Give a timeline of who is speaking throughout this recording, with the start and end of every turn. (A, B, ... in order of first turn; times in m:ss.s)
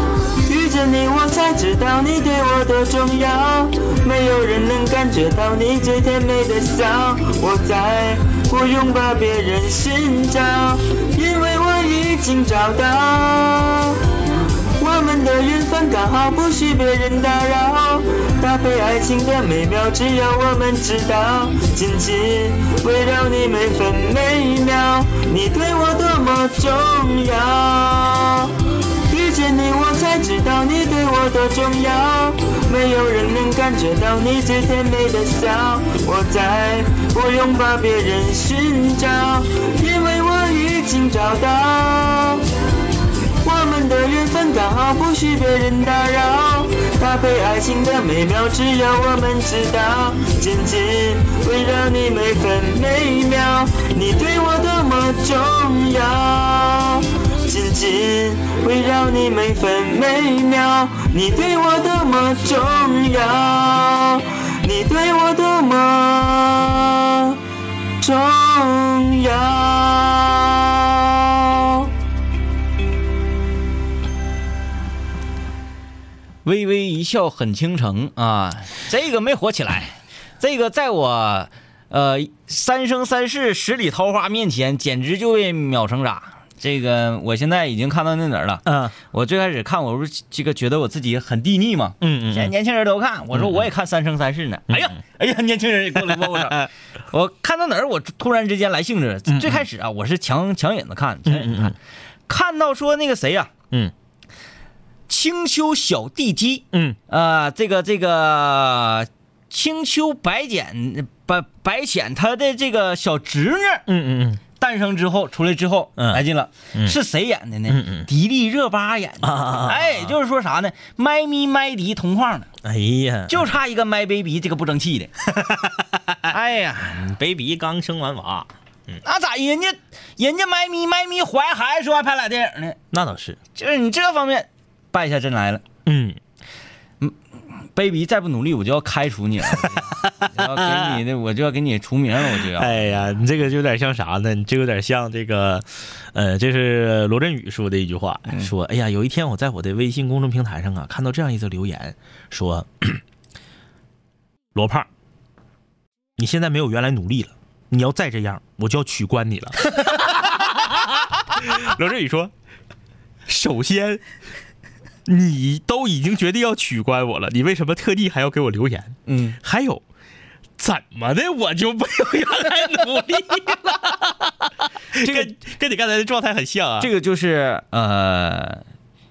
0:00.5-0:14.0 A
0:14.8-0:28.5 A
0:29.1-0:42.4 A
0:43.4-1:07.4 A
1:08.0-1:11.9 A
1:16.4-1:41.7 B
1:28.6-1:28.9 C
1:32.0-1:32.5 C
1:33.3-1:33.7 C
1:34.7-1:35.0 C
1:35.9-1:36.7 C
1:39.3-1:39.6 C
1:41.3-1:41.7 C
1:42.3-1:43.5 B
1:45.1-1:53.8 B
1:46.7-1:47.0 C
1:53.9-1:54.4 C
1:54.6-2:02.5 B
1:56.0-1:57.0 C
1:57.7-1:58.1 C
1:59.2-2:00.2 C
2:02.6-2:03.5 C
2:03.3-2:05.1 B
2:05.3-2:09.0 C
2:06.3-2:07.0 B
2:09.0-2:12.8 B
2:12.9-2:13.4 C
2:13.5-2:15.6 B
2:15.8-2:16.2 C
2:17.0-2:23.1 B
2:20.0-2:21.0 C
2:22.3-2:33.0 C
2:34.5-2:34.9 C
2:36.2-2:42.3 C
2:43.3-2:44.0 C
2:45.0-2:49.8 C
2:49.1-2:49.4 B
2:50.6-2:56.9 C
2:55.0-2:55.3 B
2:56.8-2:58.6 B